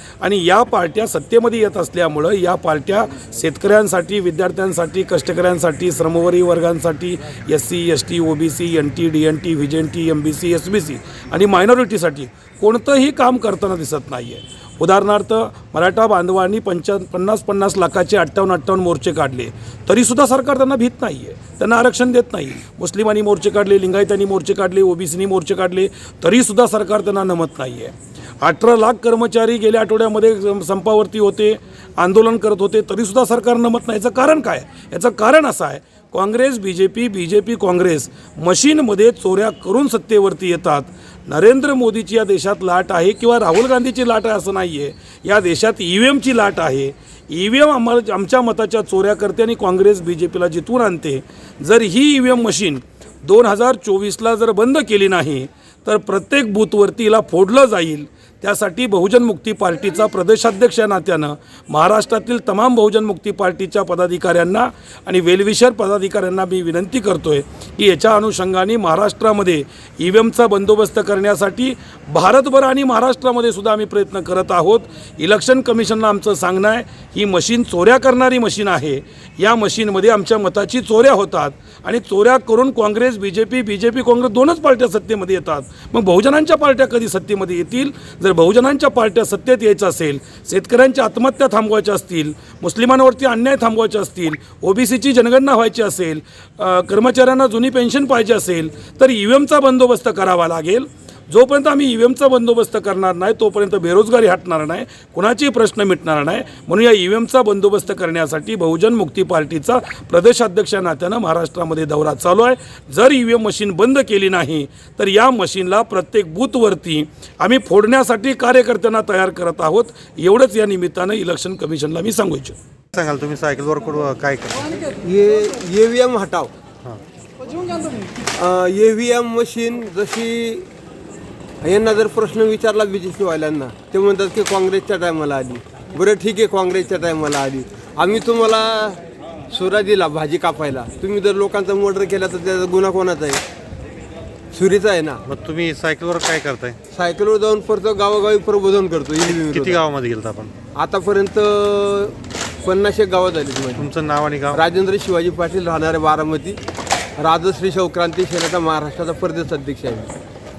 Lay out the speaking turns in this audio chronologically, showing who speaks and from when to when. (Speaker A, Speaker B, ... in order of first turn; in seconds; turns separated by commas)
Speaker A: 0.2-122.6, Speaker B: 123.0-124.8, Speaker C: 125.0-126.5, Speaker C: 128.4-130.7, Speaker C: 131.6-139.0, Speaker C: 139.5-143.4, Speaker C: 144.5-145.2, Speaker B: 145.3-146.8, Speaker C: 146.9-149.8, Speaker B: 149.2-150.5, Speaker C: 150.8-153.9, Speaker B: 153.8-154.6, Speaker C: 154.5-156.6, Speaker C: 157.2-160.1